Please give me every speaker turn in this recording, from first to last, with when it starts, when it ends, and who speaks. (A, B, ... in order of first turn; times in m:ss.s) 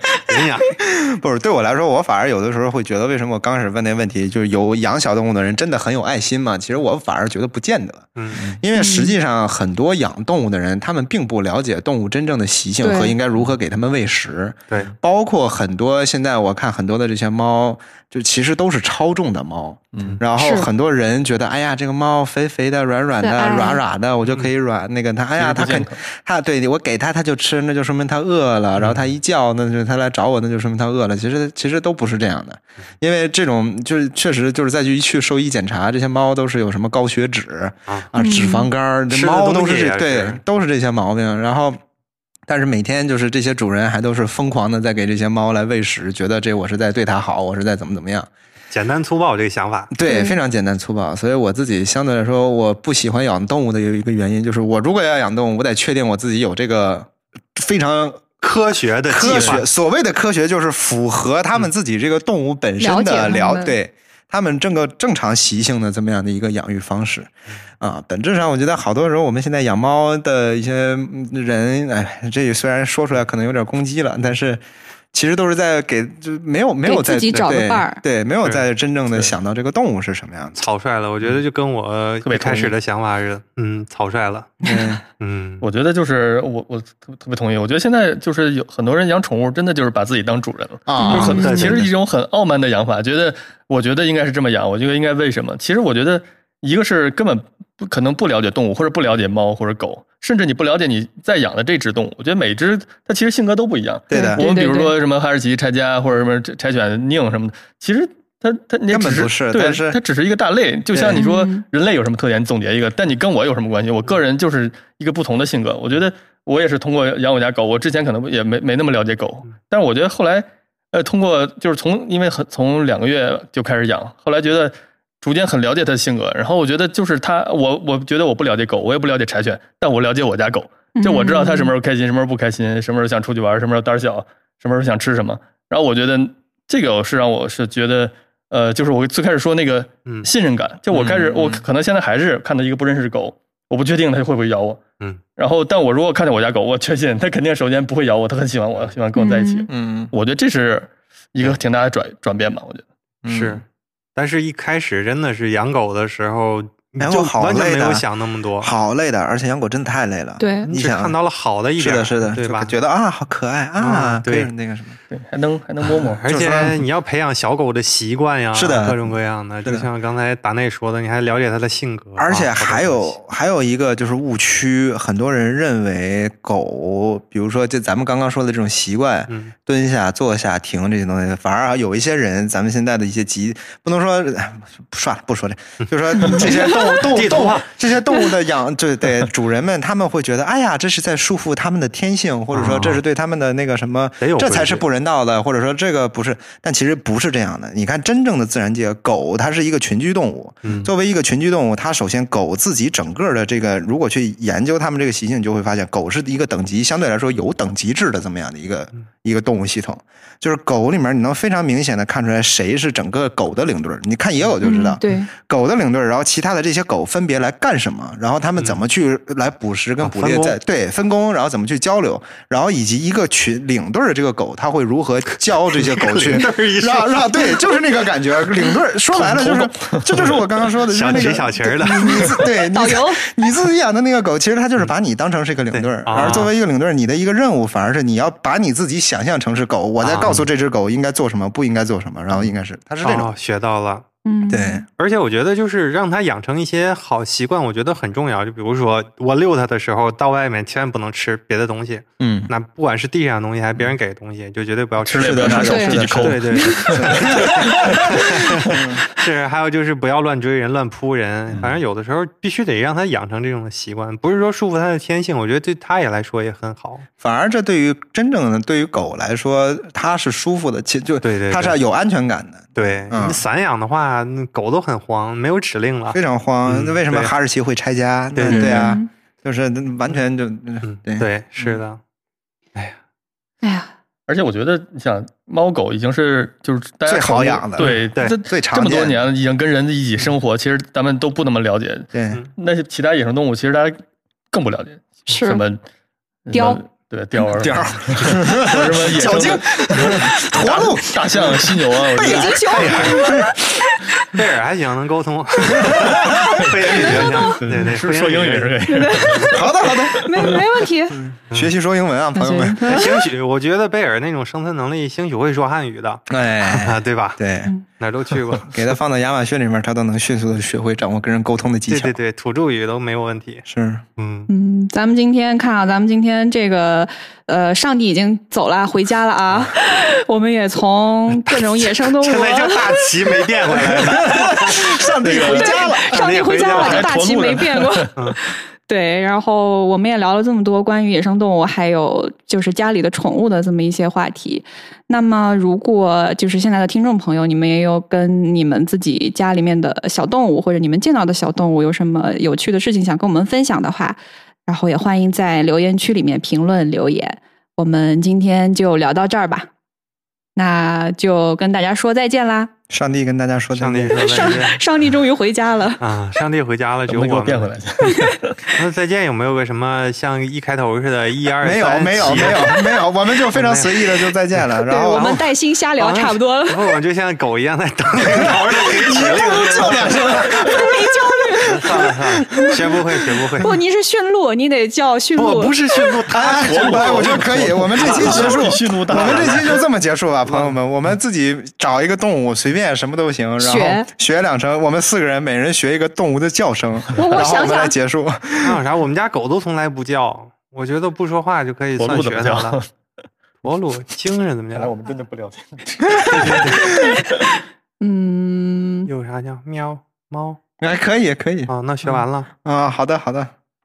0:00.3-0:00.7 A
0:00.8-0:41.8 B
0:08.2-0:08.5 A
0:08.7-0:09.2 C
0:12.8-0:13.1 C
0:20.4-0:20.7 C
0:23.2-0:23.8 C
0:24.2-0:24.5 A
0:25.4-0:26.0 D
0:28.8-0:29.1 A
0:38.2-0:38.7 C
0:39.1-0:40.4 A
0:42.5-0:48.3 B
0:48.7-0:49.9 A
0:49.9-0:58.2 B
0:50.0-0:50.4 C
0:58.4-0:59.6 A
0:59.1-1:14.6 B
0:59.3-0:59.6 D
1:02.8-1:03.8 C
1:15.1-1:20.6 B
1:16.8-1:18.0 C
1:20.6-1:24.5 A
1:22.2-1:22.7 D
1:24.6-1:25.0 B
1:24.6-1:24.9 C
1:25.2-1:25.6 A
1:25.6-2:24.8 D
1:30.9-1:31.9 B
1:31.0-1:31.5 C
1:31.1-1:31.9 A
1:44.1-1:44.4 B
1:44.1-1:44.9 C
1:48.9-1:50.0 B
1:50.9-1:51.2 B
1:51.1-1:51.6 C
2:11.0-2:11.7 C
2:20.9-2:21.6 A
2:25.4-2:33.5 D
2:29.2-2:29.7 C
2:33.3-2:33.6 A
2:34.2-2:38.7 A
2:37.0-2:38.0 B
2:38.6-2:41.2 B
2:40.4-2:40.7 C
2:40.6-2:42.8 A
2:41.8-2:45.0 B
2:43.8-2:44.5 A
2:45.1-2:46.2 D
2:46.2-2:53.2 A
2:46.2-2:46.8 B
2:48.5-2:49.0 B
2:52.2-4:03.3 B
2:59.3-2:59.5 A
3:05.8-3:07.7 A
3:12.5-3:13.0 A
3:14.2-3:14.8 A
3:20.6-3:20.9 A
3:34.6-3:35.3 C
3:40.0-3:40.6 A
3:45.6-3:47.4 A
3:49.4-3:49.7 D
3:50.2-3:52.4 A
3:52.0-3:53.2 C
3:55.7-3:56.5 A
4:00.0-4:00.5 A
4:03.0-4:04.0 A
4:04.2-4:04.8 C
4:04.5-4:04.8 B
4:05.0-4:27.1 A
4:12.2-4:12.5 B
4:15.0-4:18.0 D
4:15.2-4:17.9 B
4:15.6-4:16.9 C
4:18.7-4:19.0 B
4:27.2-4:33.4 B
4:31.2-4:31.8 A
4:32.7-4:37.3 A
4:36.1-4:41.3 B
4:38.3-4:39.0 A
4:38.5-4:39.1 C
4:40.8-4:42.0 A
4:43.6-4:43.9 C
4:44.3-4:54.0 D
4:47.0-4:49.3 B
4:47.8-4:48.4 A
4:52.1-4:52.4 B
4:54.5-4:55.8 D
4:55.3-4:55.6 C
4:56.4-5:03.1 D
4:56.5-4:56.8 C
4:57.6-5:01.6 B
5:02.2-5:03.6 B
5:02.2-5:04.1 C
5:02.7-5:03.2 A
5:04.3-5:09.5 A
5:06.2-5:07.5 C
5:07.5-5:09.6 D
5:08.9-5:11.2 C
5:09.5-5:10.6 B
5:11.1-5:13.0 B
5:12.4-5:13.1 C
5:12.8-5:17.4 A
5:16.3-5:17.7 B
5:18.0-5:18.7 A
5:18.7-5:22.1 B
5:21.9-5:23.6 A
5:23.6-5:24.0 B
5:24.2-5:24.5 A
5:24.5-5:32.9 C
5:32.2-5:37.1 A
5:34.3-5:59.7 C
5:34.6-5:36.1 B
5:35.2-5:36.0 D
5:36.6-5:38.1 D
6:00.6-6:02.7 C
6:02.9-6:04.6 B
6:03.7-6:04.8 A
6:04.2-6:06.0 C
6:06.0-6:07.8 A
6:07.1-6:08.5 D
6:08.0-6:08.8 C
6:08.8-6:12.9 A
6:11.6-6:15.4 B
6:13.5-6:14.2 A
6:14.8-6:16.8 C
6:15.1-6:20.5 A
6:18.4-6:21.7 B
6:19.2-6:21.8 C
6:21.6-6:23.8 A
6:22.5-6:22.8 B
6:23.6-6:25.7 C
6:25.4-6:29.8 A
6:26.3-6:38.8 B
6:26.6-6:29.8 D
6:30.4-6:30.8 A
6:33.6-6:34.1 C
6:37.1-6:37.9 C
6:38.6-6:42.8 A
6:42.0-6:42.9 D
6:43.6-6:44.9 A
6:44.7-6:47.2 D
6:46.3-6:46.8 A
6:48.0-6:49.1 C
6:49.0-6:50.6 A
6:50.8-6:51.7 B
6:51.7-6:52.5 A
6:52.6-6:53.5 B